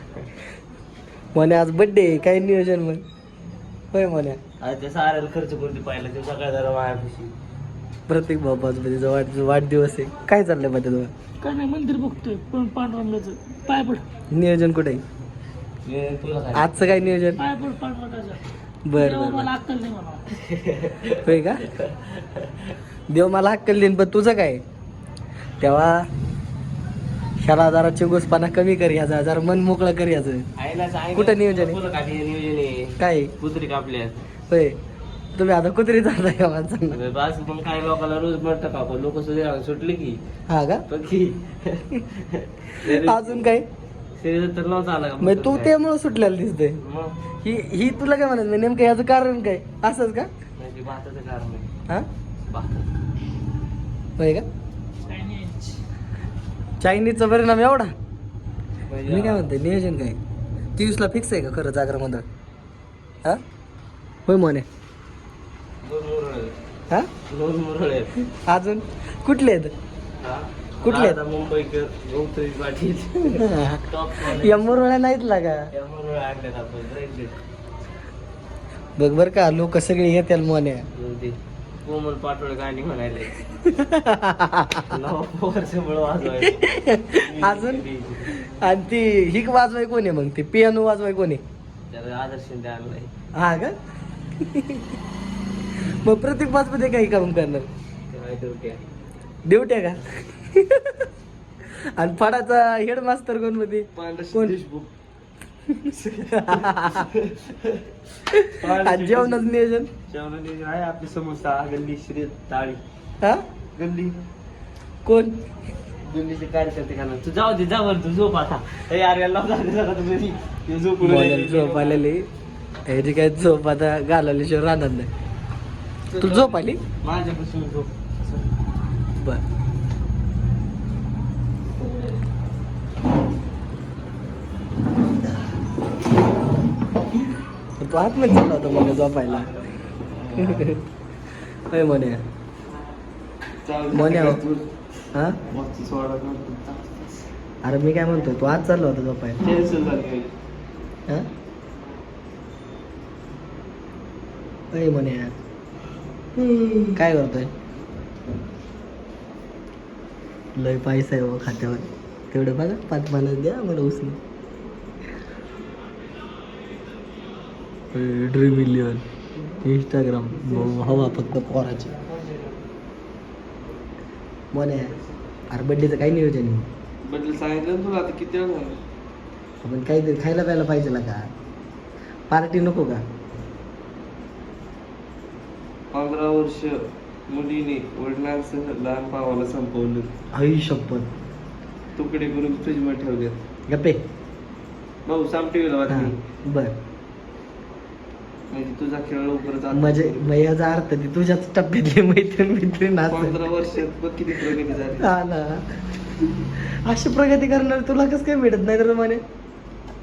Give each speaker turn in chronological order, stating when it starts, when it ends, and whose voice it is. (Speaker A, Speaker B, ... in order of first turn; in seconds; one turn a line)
Speaker A: 1.3-3.0
Speaker A: 3.9-4.4
Speaker B: 4.6-7.3
Speaker A: 8.1-11.1
Speaker C: 11.4-14.1
Speaker A: 14.3-15.0
Speaker B: 15.8-16.9
Speaker A: 16.6-17.4
Speaker C: 17.4-18.4
Speaker A: 18.9-19.5
Speaker C: 19.0-20.2
Speaker B: 20.3-22.7
Speaker A: 21.2-21.7
Speaker A: 23.1-24.6
Speaker A: 25.6-26.0
Speaker A: 27.4-30.5
Speaker B: 30.6-34.2
Speaker A: 31.1-31.8
Speaker A: 33.0-33.3
Speaker A: 34.5-34.8
Speaker A: 35.4-37.0
Speaker B: 36.9-40.2
Speaker A: 40.5-40.8
Speaker B: 40.9-43.5
Speaker A: 42.8-43.7
Speaker B: 44.2-45.7
Speaker A: 45.2-46.8
Speaker B: 46.8-47.1
Speaker A: 47.4-50.3
Speaker B: 50.6-51.7
Speaker B: 52.5-53.0
Speaker A: 54.2-54.5
Speaker C: 55.0-55.8
Speaker A: 56.8-57.9
Speaker B: 58.9-59.5
Speaker A: 59.1-60.2
Speaker A: 60.8-62.2
Speaker A: 64.3-64.7
Speaker B: 65.8-66.5
Speaker B: 67.3-68.1
Speaker A: 68.3-69.7
Speaker B: 70.2-74.8
Speaker A: 70.8-71.2
Speaker A: 73.3-75.7
Speaker B: 75.7-77.4
Speaker A: 79.0-80.9
Speaker B: 80.9-83.4
Speaker A: 83.7-84.9
Speaker B: 84.9-88.5
Speaker A: 86.5-91.4
Speaker B: 91.9-93.1
Speaker A: 93.3-93.8
Speaker A: 94.4-94.8
Speaker A: 95.8-97.7
Speaker B: 98.1-98.8
Speaker A: 99.5-101.1
Speaker A: 102.0-104.6
Speaker B: 104.0-104.9
Speaker A: 105.7-107.1
Speaker B: 105.9-107.9
Speaker A: 108.3-109.9
Speaker B: 108.4-109.5
Speaker B: 110.1-112.8
Speaker B: 113.8-114.2
Speaker A: 115.0-115.4
Speaker B: 116.1-122.0
Speaker A: 121.0-122.3
Speaker A: 122.9-125.1
Speaker B: 126.1-128.5
Speaker A: 126.2-126.8
Speaker A: 129.2-129.4
Speaker A: 137.8-139.5
Speaker B: 140.1-140.7
Speaker A: 140.4-140.8
Speaker A: 141.7-142.2
Speaker B: 143.6-144.7
Speaker A: 143.9-144.4
Speaker A: 145.1-145.4
Speaker B: 145.4-147.1
Speaker A: 147.6-149.4
Speaker B: 149.4-150.3
Speaker A: 154.7-155.3
Speaker B: 156.5-156.8
Speaker A: 156.9-157.5
Speaker A: 160.6-164.2
Speaker A: 167.9-169.0
Speaker A: 169.6-172.0
Speaker B: 172.2-172.4
Speaker A: 174.5-174.9
Speaker A: 175.5-176.7
Speaker B: 177.0-178.8
Speaker A: 179.6-181.3
Speaker A: 182.3-183.0
Speaker B: 185.9-190.1
Speaker A: 190.3-191.1
Speaker B: 192.0-193.4
Speaker A: 193.7-194.0
Speaker B: 195.1-196.2
Speaker A: 195.9-196.8
Speaker B: 198.5-200.3
Speaker A: 199.7-203.4
Speaker B: 203.1-205.1
Speaker A: 204.6-209.2